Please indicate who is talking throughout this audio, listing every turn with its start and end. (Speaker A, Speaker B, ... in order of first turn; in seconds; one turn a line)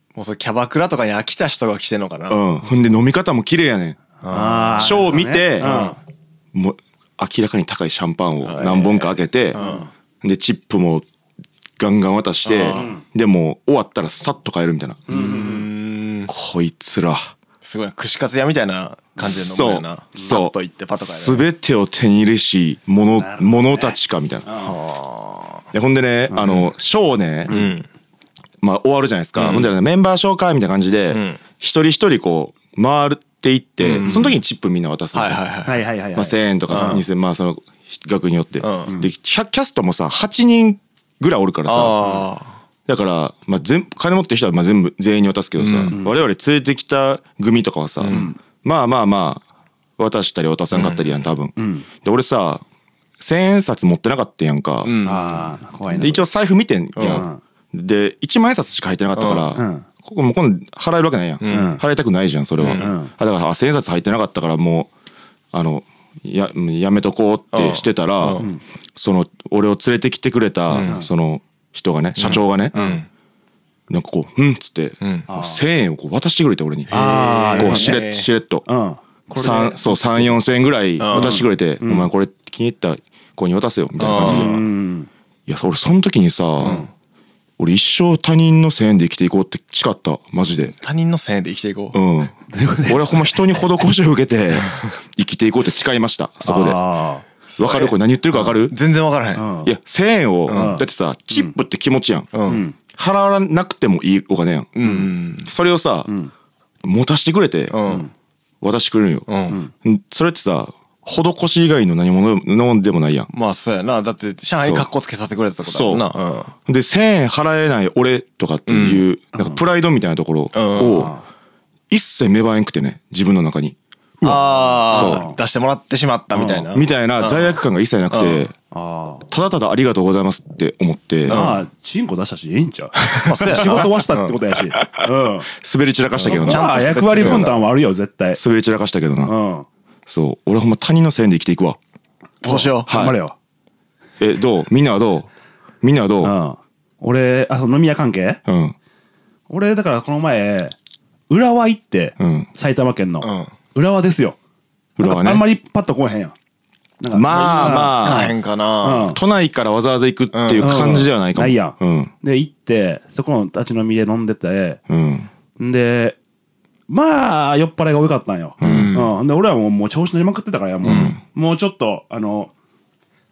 Speaker A: 0.1-2.5
Speaker B: 2.3-4.0
Speaker A: 4.2-5.0
Speaker C: 4.3-6.0
Speaker B: 4.8-5.7
Speaker A: 5.6-6.0
Speaker B: 6.5-9.6
Speaker A: 8.4-9.9
Speaker C: 9.5-9.9
Speaker B: 10.2-11.1
Speaker B: 11.8-15.1
Speaker A: 12.5-12.9
Speaker C: 12.7-13.0
Speaker C: 15.1-15.7
Speaker A: 15.1-16.3
Speaker B: 16.3-17.3
Speaker A: 17.6-21.5
Speaker B: 19.2-24.5
Speaker C: 23.2-24.8
Speaker A: 24.6-25.6
Speaker B: 25.7-27.6
Speaker A: 27.5-27.9
Speaker B: 28.6-35.4
Speaker A: 29.4-29.7
Speaker A: 31.1-31.4
Speaker A: 33.8-34.4
Speaker A: 35.1-35.8
Speaker C: 35.7-37.0
Speaker B: 36.1-42.1
Speaker A: 36.7-37.0
Speaker A: 38.6-38.9
Speaker A: 41.7-42.5
Speaker B: 42.9-49.4
Speaker A: 45.6-46.0
Speaker A: 48.0-48.3
Speaker C: 48.1-48.4
Speaker B: 50.0-52.6
Speaker A: 50.7-51.1
Speaker C: 51.6-51.9
Speaker B: 53.2-54.9
Speaker A: 54.8-55.5
Speaker C: 55.0-56.2
Speaker B: 55.9-64.9
Speaker A: 57.0-57.3
Speaker C: 57.0-57.4
Speaker A: 59.1-59.6
Speaker C: 59.6-59.9
Speaker A: 61.4-61.8
Speaker C: 61.5-61.8
Speaker C: 62.6-63.1
Speaker A: 62.6-62.9
Speaker B: 65.5-72.8
Speaker A: 67.5-68.5
Speaker A: 70.7-71.0
Speaker A: 72.2-73.1
Speaker C: 72.2-73.0
Speaker B: 73.9-76.9
Speaker A: 75.0-75.3
Speaker C: 75.3-75.6
Speaker A: 76.9-78.3
Speaker C: 76.9-78.0
Speaker B: 77.6-78.7
Speaker C: 78.7-80.4
Speaker B: 79.3-84.6
Speaker A: 81.0-81.4
Speaker C: 81.1-82.1
Speaker A: 84.0-84.6
Speaker C: 84.2-85.1
Speaker B: 85.5-86.8
Speaker C: 86.6-86.9
Speaker B: 87.6-90.8
Speaker A: 90.8-92.0
Speaker B: 91.9-92.3
Speaker C: 92.5-93.7
Speaker B: 92.9-96.8
Speaker C: 96.4-97.3
Speaker A: 97.5-99.5
Speaker B: 97.6-98.8
Speaker C: 99.3-99.7
Speaker B: 99.7-102.3
Speaker A: 100.5-100.8
Speaker C: 100.5-101.5
Speaker A: 102.3-102.6
Speaker C: 102.5-102.8
Speaker B: 102.9-104.8
Speaker A: 104.8-105.5
Speaker B: 105.4-106.1
Speaker B: 106.8-107.8
Speaker A: 107.7-108.1
Speaker B: 108.6-109.3
Speaker A: 109.3-109.6
Speaker B: 109.8-113.3
Speaker A: 113.3-116.5
Speaker B: 114.6-114.9
Speaker B: 115.7-116.1
Speaker B: 116.7-121.1
Speaker A: 118.7-119.0
Speaker C: 119.3-119.6
Speaker A: 120.5-121.1
Speaker C: 120.9-121.2
Speaker B: 121.9-125.2
Speaker A: 124.2-127.5
Speaker C: 124.7-125.4
Speaker C: 126.3-126.7
Speaker B: 126.7-128.5
Speaker A: 128.1-128.5
Speaker C: 128.7-129.2
Speaker B: 129.3-131.4
Speaker C: 131.3-135.5
Speaker A: 131.3-131.6
Speaker A: 133.2-134.4
Speaker B: 135.5-137.6
Speaker A: 136.2-137.6
Speaker C: 136.2-138.4
Speaker B: 138.3-139.3
Speaker C: 139.2-139.7
Speaker B: 140.1-141.8
Speaker A: 142.4-142.9
Speaker C: 142.4-143.3
Speaker B: 142.9-143.2
Speaker B: 144.2-145.3
Speaker B: 145.8-146.3
Speaker C: 146.2-148.4
Speaker B: 148.5-148.8
Speaker C: 149.5-150.8
Speaker C: 151.3-154.4
Speaker B: 152.2-152.5
Speaker A: 153.2-153.5
Speaker B: 155.0-155.4
Speaker C: 155.0-156.3
Speaker C: 157.0-159.2
Speaker B: 157.1-158.3
Speaker A: 157.3-159.2
Speaker B: 159.1-162.1
Speaker A: 160.3-160.9
Speaker C: 160.6-164.8
Speaker B: 164.9-165.3
Speaker C: 165.6-166.2
Speaker C: 166.9-172.5
Speaker B: 168.6-168.9
Speaker A: 168.6-169.1
Speaker B: 170.8-171.2
Speaker A: 170.8-171.1